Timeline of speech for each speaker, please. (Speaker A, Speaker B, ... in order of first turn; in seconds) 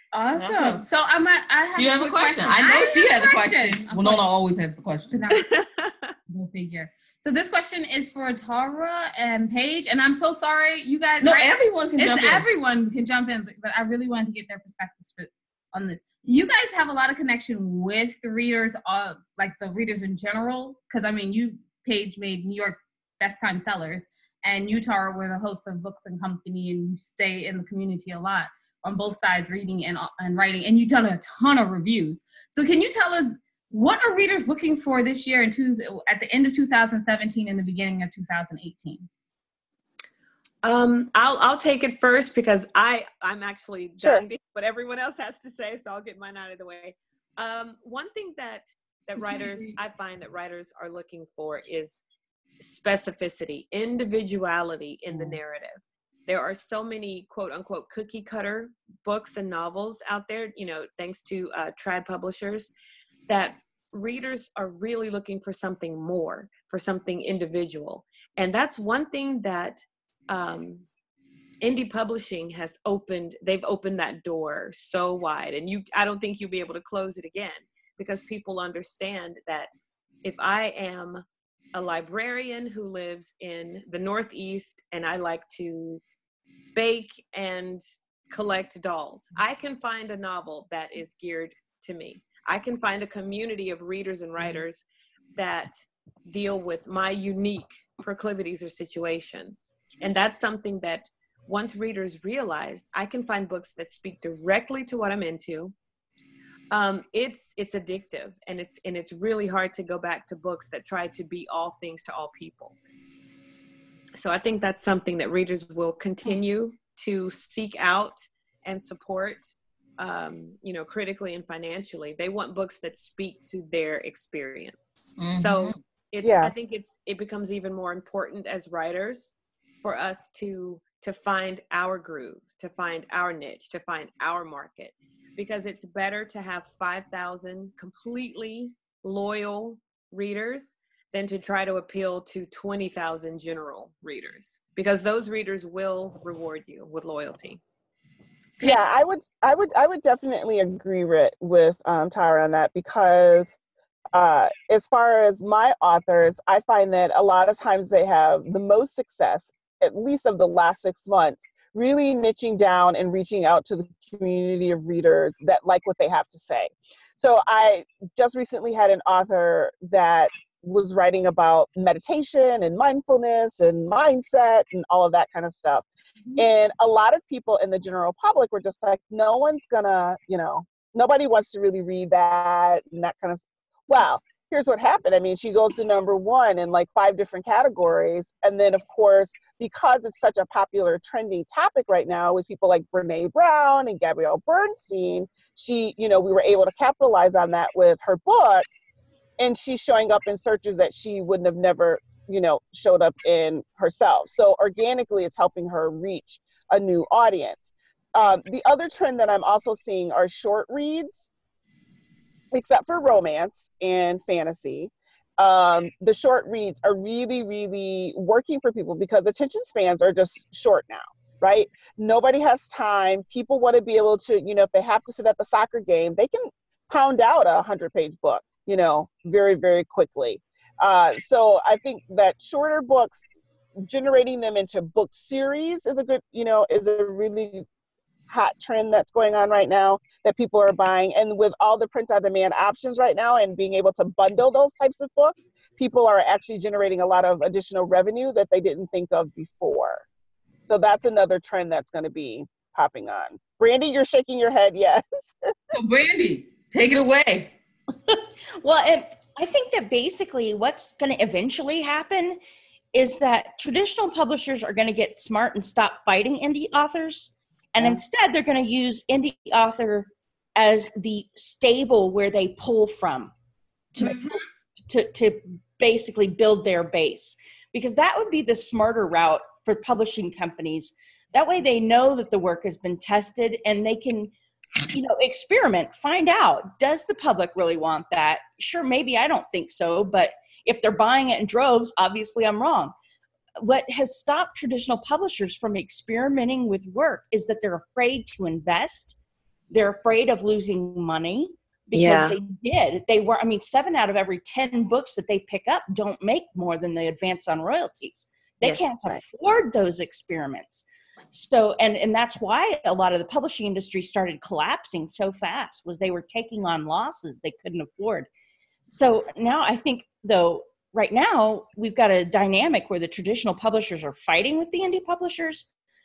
Speaker A: 0.1-4.3, 5.1-5.5, 6.3-39.1, 49.2-49.7
Speaker B: 0.3-0.8, 1.8-5.2, 11.2-12.5, 125.2-125.7, 255.7-257.5
Speaker C: 5.3-6.2, 40.6-52.0, 52.6-62.7, 63.3-70.9, 71.6-79.7, 80.2-81.2, 81.7-86.0, 86.7-94.8, 95.4-95.7, 96.3-105.8, 106.7-112.8, 114.2-147.6, 301.9-302.4, 308.6-308.9
Speaker D: 126.2-126.5, 148.6-153.6, 154.1-198.7, 199.4-211.3, 212.5-233.2, 233.8-237.7, 238.3-250.0, 250.7-255.5
Speaker E: 258.1-262.4, 262.9-273.3, 273.9-284.3, 284.9-292.9, 293.6-299.2, 299.7-318.3, 318.9-325.7